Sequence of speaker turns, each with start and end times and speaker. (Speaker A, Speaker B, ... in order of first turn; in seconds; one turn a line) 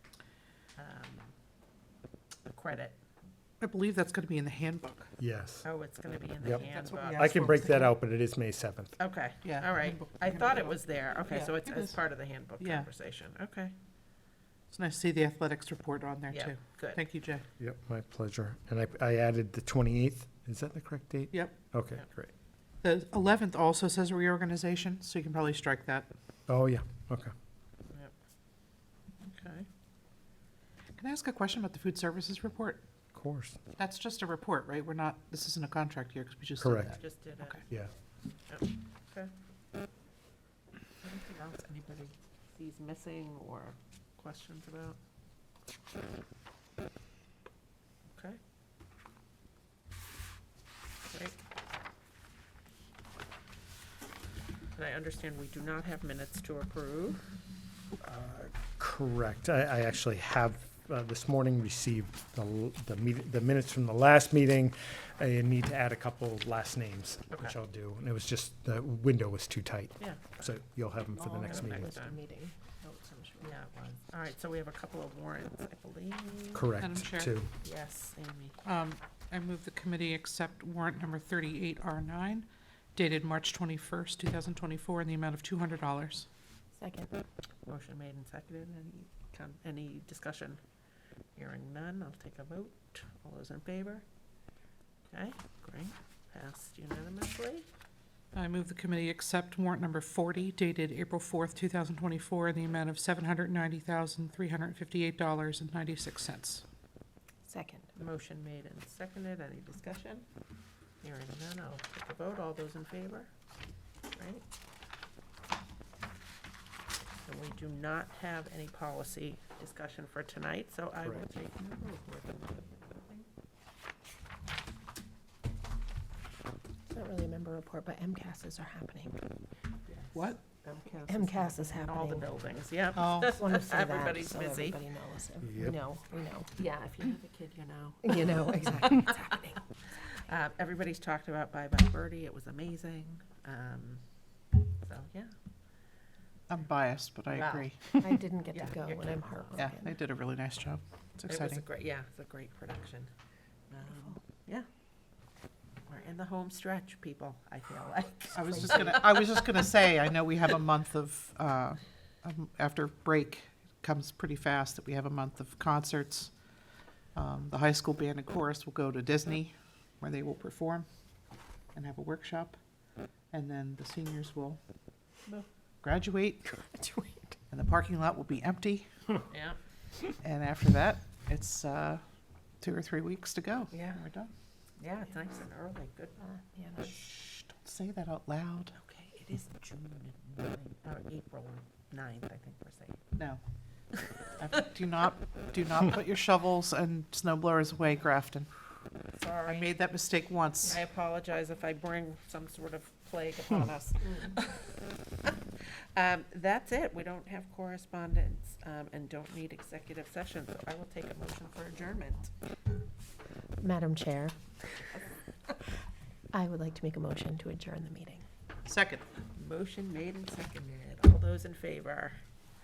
Speaker A: 0.8-1.3
Speaker A: 2.4-3.0
Speaker B: 3.6-5.1
Speaker C: 5.2-5.7
Speaker A: 5.6-7.3
Speaker C: 6.4-8.9
Speaker B: 6.6-7.9
Speaker A: 9.0-13.7
Speaker B: 9.4-12.0
Speaker B: 12.6-12.9
Speaker B: 14.7-17.4
Speaker A: 16.3-17.0
Speaker C: 17.6-22.3
Speaker B: 22.8-26.1
Speaker C: 26.5-27.3
Speaker A: 29.3-29.7
Speaker B: 31.0-32.8
Speaker C: 33.1-33.6
Speaker B: 33.8-37.0
Speaker C: 36.6-37.0
Speaker A: 37.0-37.6
Speaker A: 38.5-39.3
Speaker A: 41.0-45.0
Speaker A: 48.1-48.4
Speaker A: 51.1-51.4
Speaker A: 54.7-57.2
Speaker C: 58.0-71.9
Speaker A: 70.0-70.6
Speaker D: 71.1-73.5
Speaker A: 71.4-72.2
Speaker A: 73.4-76.8
Speaker C: 76.5-77.5
Speaker B: 76.8-77.3
Speaker A: 77.6-78.6
Speaker B: 78.6-86.3
Speaker D: 86.8-87.1
Speaker A: 87.6-90.6
Speaker A: 91.3-94.0
Speaker A: 95.1-97.7
Speaker B: 98.3-106.6
Speaker D: 107.5-107.9
Speaker A: 107.9-110.2
Speaker A: 111.0-113.3
Speaker A: 114.1-114.4
Speaker A: 117.2-123.3
Speaker D: 126.9-129.2
Speaker A: 129.9-134.8
Speaker B: 130.1-130.4
Speaker D: 131.1-132.3
Speaker B: 132.9-133.4
Speaker D: 133.2-136.5
Speaker C: 135.4-135.8
Speaker A: 136.6-139.2
Speaker D: 138.0-139.6
Speaker A: 140.0-144.0
Speaker A: 144.8-145.3
Speaker B: 146.5-148.0
Speaker A: 147.3-147.7
Speaker D: 148.0-149.9
Speaker A: 148.5-149.6
Speaker B: 149.6-151.6
Speaker A: 151.3-153.1
Speaker A: 153.7-154.7
Speaker A: 155.9-159.6
Speaker B: 158.3-166.3
Speaker B: 167.1-170.8
Speaker B: 171.7-172.6
Speaker B: 173.3-174.6
Speaker B: 175.8-176.4
Speaker D: 176.4-177.3
Speaker B: 177.5-178.9
Speaker A: 179.3-179.6
Speaker B: 180.2-182.0
Speaker B: 182.6-184.3
Speaker A: 183.7-184.0
Speaker A: 184.8-186.2
Speaker D: 186.2-186.9
Speaker B: 187.5-188.7
Speaker A: 188.7-193.0
Speaker B: 194.4-198.5
Speaker A: 199.1-199.7
Speaker B: 199.4-200.8
Speaker A: 200.6-205.3
Speaker A: 205.9-212.3
Speaker D: 213.6-214.3
Speaker D: 216.3-218.2
Speaker B: 218.6-219.0
Speaker A: 219.3-222.2